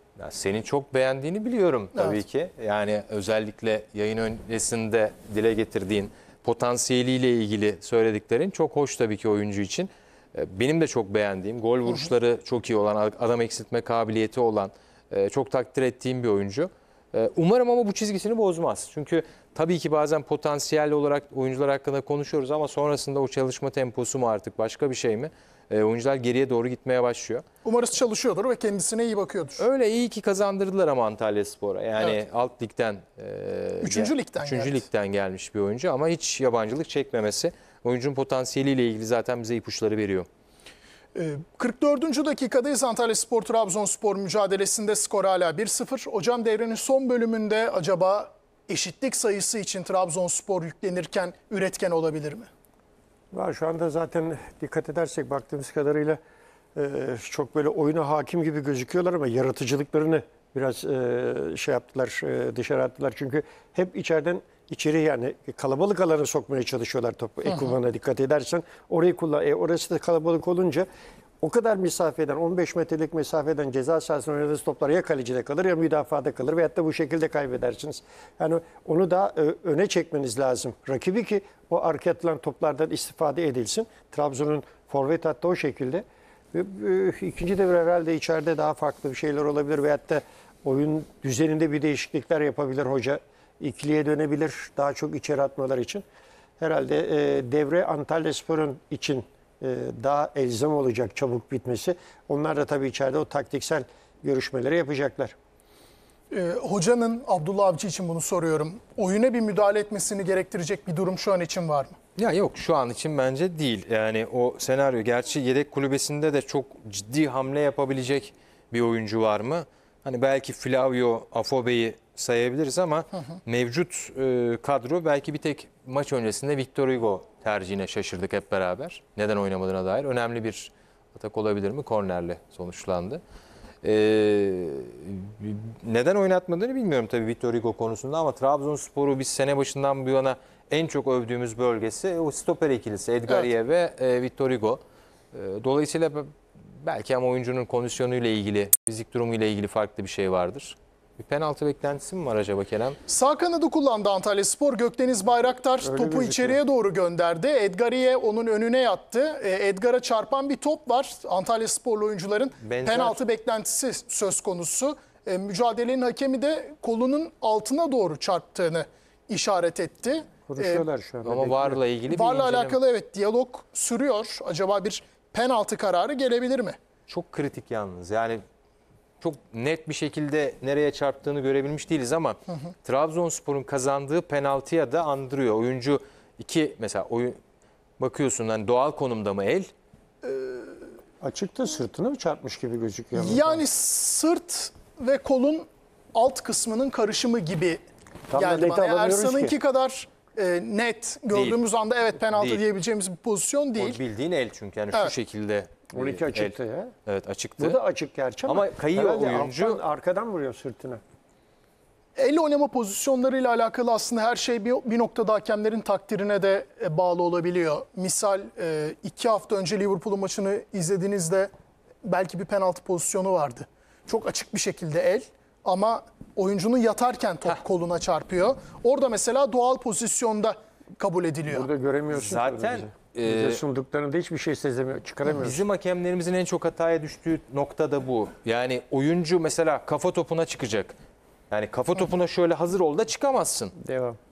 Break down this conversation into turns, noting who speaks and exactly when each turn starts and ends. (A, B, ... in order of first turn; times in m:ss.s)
0:00.2-0:27.4 A
0:02.0-0:02.2 B
0:27.6-0:29.6 B
0:29.6-0:40.3 A
0:33.8-0:34.9 B
0:41.2-0:52.5 B
0:53.3-0:56.2 C
0:56.8-1:10.9 C
1:11.4-1:36.0 C
1:36.6-1:45.3 C
1:46.3-1:52.0 B
1:52.2-2:13.2 A
2:13.8-2:24.8 A
2:25.3-2:26.3 A
2:26.8-2:33.0 A
2:33.1-2:50.9 B
2:35.8-2:36.6 C
2:42.6-2:43.2 A
2:50.5-2:51.8 C
2:51.2-2:52.8 A
2:52.1-2:56.8 B
2:57.1-2:58.4 A
2:59.2-3:07.4 A
3:08.0-3:09.7 A
3:10.2-3:10.7 B
3:11.2-3:13.6 C
3:13.2-3:17.8 B
3:18.3-3:19.6 C
3:18.3-3:24.0 B
3:21.3-3:21.6 A
3:22.4-3:22.6 A
3:23.8-3:26.5 A
3:25.9-3:26.9 C
3:27.1-3:27.8 A
3:27.6-3:31.0 C
3:28.4-3:29.8 A
3:32.2-3:41.5 B
3:42.0-3:51.7 B
3:51.5-3:55.6 C
3:52.1-3:53.6 A
3:55.2-4:01.0 A
4:01.5-4:03.8 A
4:03.8-4:04.2 C